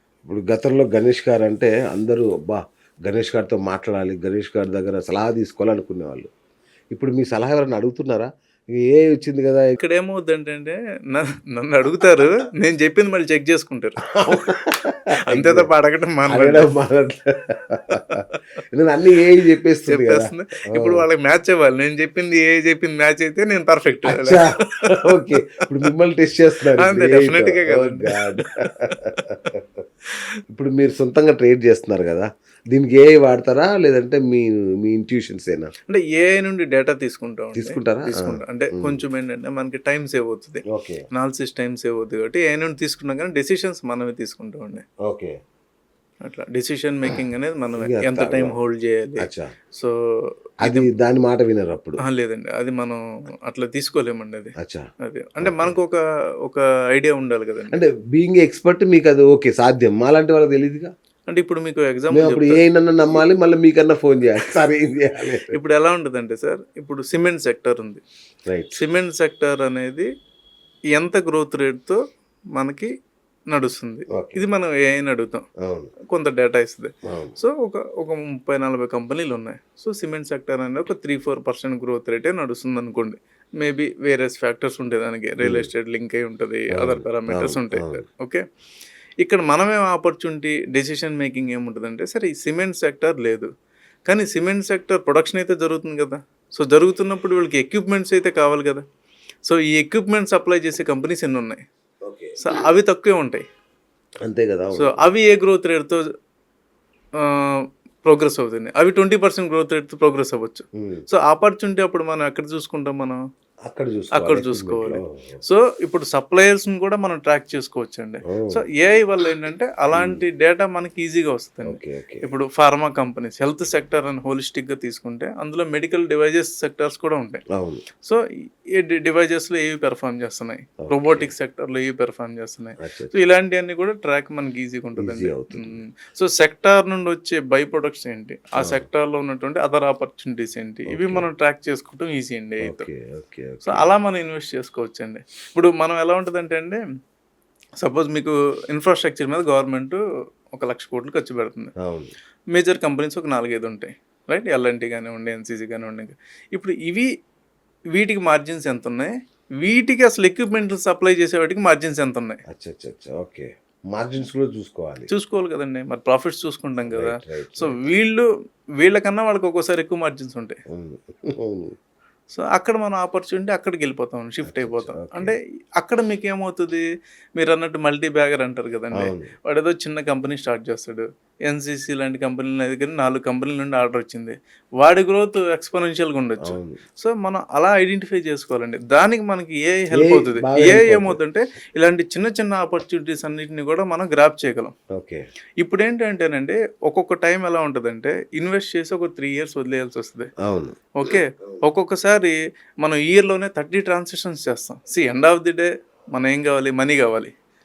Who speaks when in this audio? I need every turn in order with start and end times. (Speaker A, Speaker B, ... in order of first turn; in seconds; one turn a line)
Speaker A: 0.3-6.3
Speaker A: 6.9-9.8
Speaker B: 9.8-14.4
Speaker A: 14.1-15.7
Speaker B: 15.3-16.7
Speaker A: 16.3-21.0
Speaker B: 19.9-25.4
Speaker A: 24.0-29.7
Speaker B: 26.8-29.2
Speaker A: 30.5-35.7
Speaker B: 35.9-44.8
Speaker A: 37.5-39.0
Speaker A: 40.7-41.0
Speaker A: 45.1-45.3
Speaker B: 46.2-50.9
Speaker A: 47.8-48.6
Speaker A: 49.2-49.5
Speaker A: 50.6-52.0
Speaker B: 52.0-57.8
Speaker A: 54.6-54.8
Speaker A: 55.4-55.8
Speaker A: 57.7-60.9
Speaker B: 61.3-62.6
Speaker A: 62.1-65.5
Speaker B: 65.5-68.0
Speaker A: 68.5-68.8
Speaker B: 68.8-70.1
Speaker B: 70.9-72.0
Speaker B: 72.5-72.9
Speaker B: 73.5-75.5
Speaker A: 74.1-74.4
Speaker A: 75.6-75.9
Speaker B: 76.1-88.4
Speaker A: 77.1-77.3
Speaker A: 85.4-85.7
Speaker A: 86.7-88.0
Speaker B: 89.2-93.5
Speaker B: 94.1-98.8
Speaker B: 99.4-101.6
Speaker A: 102.1-102.4
Speaker B: 102.4-103.4
Speaker A: 104.2-104.9
Speaker B: 104.8-106.1
Speaker B: 107.2-113.2
Speaker A: 110.8-111.0
Speaker A: 113.7-115.4
Speaker B: 114.1-127.4
Speaker A: 118.3-118.6
Speaker A: 119.9-120.2
Speaker A: 121.7-122.2
Speaker A: 127.5-127.8
Speaker B: 128.7-142.9
Speaker A: 130.8-131.3
Speaker A: 132.8-133.1
Speaker A: 135.0-135.8
Speaker A: 138.6-138.8
Speaker A: 140.9-141.2
Speaker A: 142.7-143.9
Speaker B: 143.6-146.8
Speaker B: 147.8-150.0
Speaker B: 150.5-151.7
Speaker A: 151.8-152.1
Speaker B: 152.5-157.1
Speaker B: 157.9-162.4
Speaker A: 162.5-165.1
Speaker B: 165.1-168.3
Speaker A: 166.9-167.8
Speaker B: 168.8-170.6
Speaker A: 170.7-171.7
Speaker B: 172.3-194.7
Speaker A: 174.4-175.3
Speaker A: 178.9-179.3
Speaker A: 186.4-186.8
Speaker A: 189.9-191.2
Speaker A: 194.9-195.2
Speaker B: 195.6-200.3
Speaker A: 200.4-200.9
Speaker B: 200.9-207.3